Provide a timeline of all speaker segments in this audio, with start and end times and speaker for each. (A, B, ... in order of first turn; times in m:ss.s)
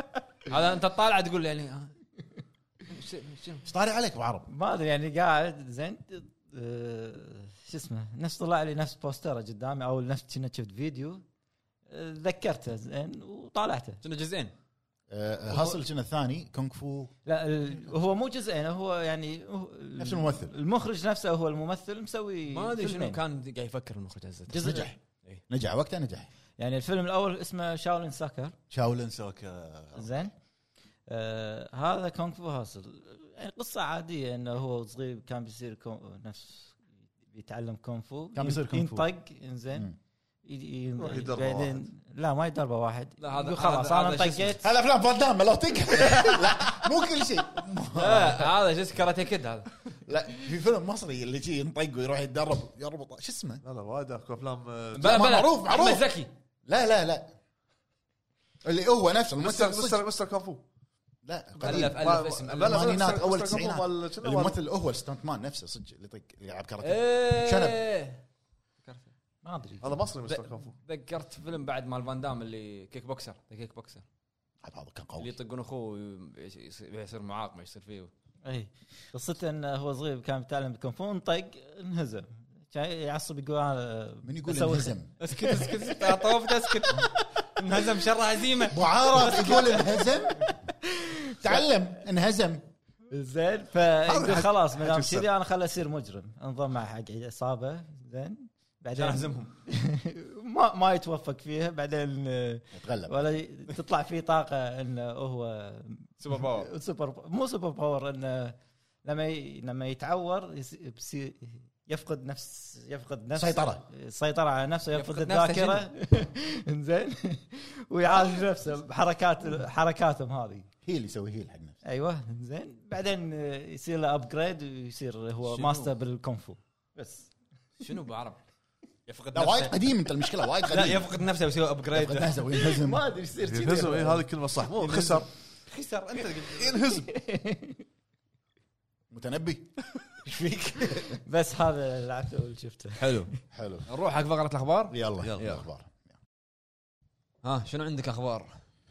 0:00.5-0:01.9 A
0:02.9-0:03.6 A
0:03.6-0:04.5 B
0:04.5-0:11.2 C
0:11.9-0:14.0 C
0:14.0-0:14.5 A
0:15.1-0:17.1 B
0:17.3-0:23.2 C
0:20.0-0:20.5 B
0:22.5-0:25.4 A
0:24.5-0:25.0 B
0:24.6-0:24.9 C
0:25.5-0:26.3 B
0:26.6-0:28.6 C
0:28.7-0:30.1 B
0:30.0-0:30.3 C
0:31.1-0:39.9 C
0:38.4-0:39.1 B
0:40.4-0:44.6 C
0:41.0-0:41.8 D
0:43.2-0:44.6 A
0:44.6-0:48.5 B
0:46.0-0:46.4 C
0:47.9-0:49.8 A
0:50.1-0:53.6 B
0:53.6-0:55.2 D
0:55.0-0:56.3 A
0:55.0-0:56.1 B
0:56.7-0:57.4 B
0:58.6-1:00.0 B
0:59.4-1:00.6 D
1:01.2-1:07.8 B
1:01.6-1:03.2 A
1:01.6-1:04.6 D
1:06.8-1:08.2 A
1:08.8-1:09.1 A
1:09.4-1:10.0 C
1:09.8-1:10.8 D
1:10.3-1:14.0 A
1:14.6-1:15.3 B
1:15.2-1:18.1 A
1:18.4-1:26.2 C
1:24.2-1:25.1 B
1:25.2-1:30.1 A
1:28.7-1:30.5 B
1:30.9-1:31.4 C
1:31.4-1:32.6 B
1:33.1-2:00.7 C
1:34.1-1:35.3 D
1:39.0-1:39.5 A
1:42.7-1:43.2 B
1:46.2-1:46.7 A
1:53.4-1:53.8 B
1:54.9-1:55.9 A
2:00.8-2:01.8 B
2:01.8-2:07.3 C
2:05.5-2:05.9 A
2:07.8-2:08.4 A
2:09.1-2:09.8 A
2:09.3-2:11.2 B
2:10.6-2:12.4 A
2:11.9-2:13.0 B
2:12.5-2:14.3 C
2:13.4-2:15.3 D
2:14.8-2:16.7 A
2:16.6-2:17.1 D
2:16.8-2:17.8 C
2:19.1-2:21.2 B
2:21.1-2:23.2 C
2:23.0-2:23.3 A
2:23.5-2:23.9 B
2:23.9-2:25.6 A
2:24.9-2:26.2 B
2:27.4-2:28.5 A